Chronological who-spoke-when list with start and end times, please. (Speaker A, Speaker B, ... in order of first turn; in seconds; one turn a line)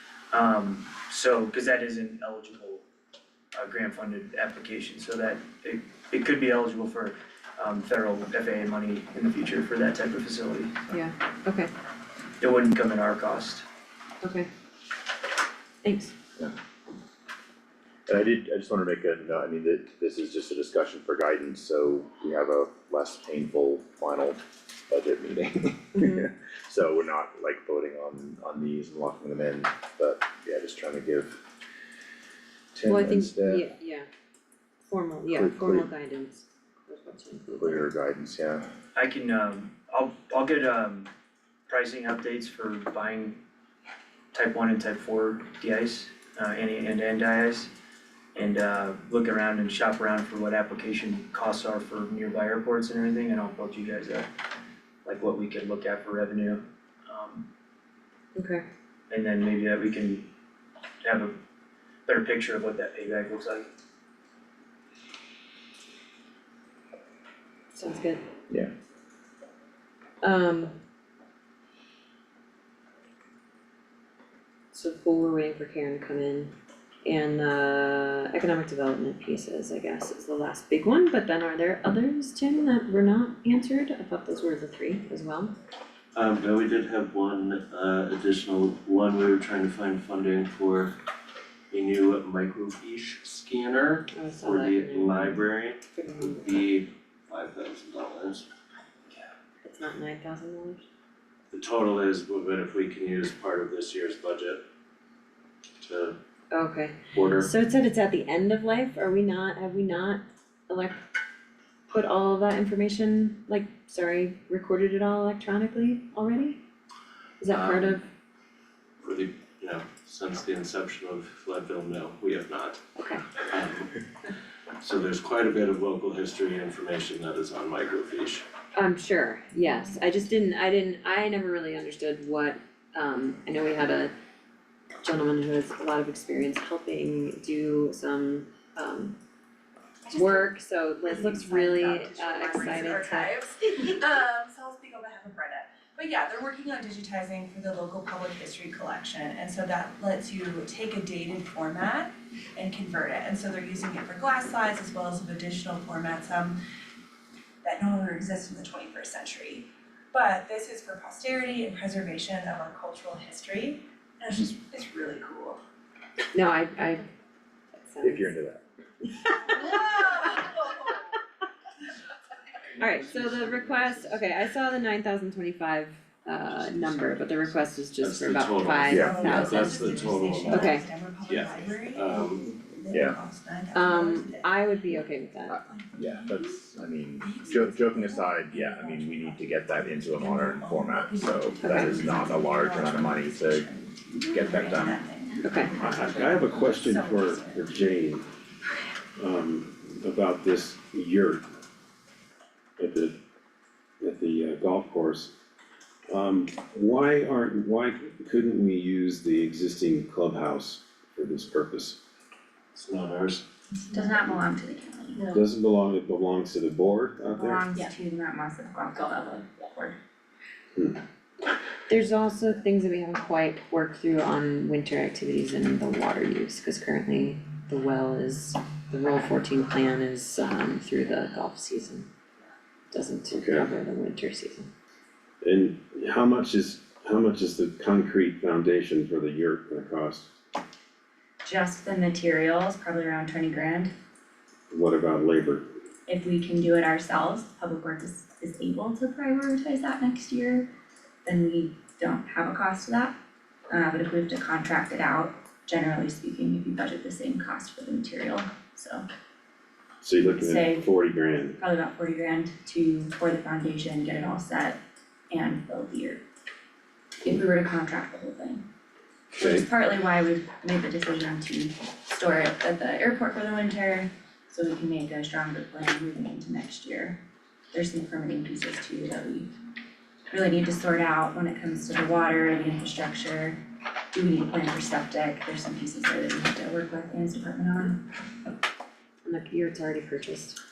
Speaker A: 0.3-2.8
Speaker A: 3.5-10.8
Speaker B: 10.9-11.7
Speaker A: 12.4-13.6
Speaker B: 14.2-14.5
Speaker B: 15.8-16.1
Speaker C: 18.1-31.5
Speaker B: 26.0-26.3
Speaker C: 32.7-33.6
Speaker B: 32.9-34.1
Speaker B: 34.9-37.9
Speaker C: 35.3-35.9
Speaker C: 37.6-38.7
Speaker A: 39.0-41.1
Speaker A: 41.7-43.4
Speaker A: 44.3-47.7
Speaker A: 48.4-54.3
Speaker A: 55.0-57.5
Speaker B: 58.4-58.6
Speaker A: 59.1-60.3
Speaker A: 61.0-61.4
Speaker A: 62.1-63.7
Speaker B: 67.7-68.2
Speaker B: 70.2-70.8
Speaker B: 74.7-76.5
Speaker B: 77.0-85.5
Speaker D: 86.2-91.0
Speaker D: 91.7-98.5
Speaker B: 94.1-96.4
Speaker B: 99.6-100.8
Speaker D: 101.5-104.6
Speaker D: 105.8-106.2
Speaker B: 106.5-111.0
Speaker D: 107.1-107.5
Speaker B: 111.9-116.6
Speaker B: 117.4-118.0
Speaker D: 117.5-118.0
Speaker D: 119.0-122.8
Speaker B: 123.0-123.3
Speaker D: 123.5-124.0
Speaker D: 124.8-128.4
Speaker B: 128.7-134.1
Speaker B: 135.0-139.2
Speaker E: 140.1-156.6
Speaker B: 140.1-143.3
Speaker E: 157.6-165.6
Speaker B: 166.3-167.1
Speaker B: 167.8-168.3
Speaker C: 168.0-168.6
Speaker B: 169.1-170.2
Speaker E: 169.6-170.8
Speaker B: 172.8-179.9
Speaker D: 173.2-173.4
Speaker D: 178.0-182.6
Speaker C: 178.9-179.2
Speaker E: 178.9-186.6
Speaker B: 180.5-180.9
Speaker C: 182.9-183.2
Speaker B: 183.7-185.6
Speaker C: 185.9-195.0
Speaker E: 187.2-197.8
Speaker B: 195.4-195.7
Speaker F: 195.8-198.3
Speaker F: 199.2-201.4
Speaker F: 202.8-203.2
Speaker F: 204.0-205.3
Speaker F: 206.1-212.0
Speaker D: 212.7-213.4
Speaker G: 213.9-215.4
Speaker F: 215.3-217.6
Speaker G: 217.3-220.0
Speaker F: 220.8-221.0
Speaker B: 221.9-232.1
Speaker B: 232.9-234.7
Speaker F: 233.3-233.7
Speaker F: 235.4-240.3
Speaker G: 241.4-243.9
Speaker F: 244.7-245.7
Speaker G: 246.1-250.7
Speaker G: 251.2-253.2
Speaker G: 253.7-259.1
Speaker F: 260.0-261.6
Speaker G: 260.3-260.9
Speaker G: 261.6-266.2
Speaker G: 267.2-268.7
Speaker F: 269.4-269.7
Speaker G: 269.4-279.6
Speaker G: 280.3-288.1
Speaker B: 289.2-290.6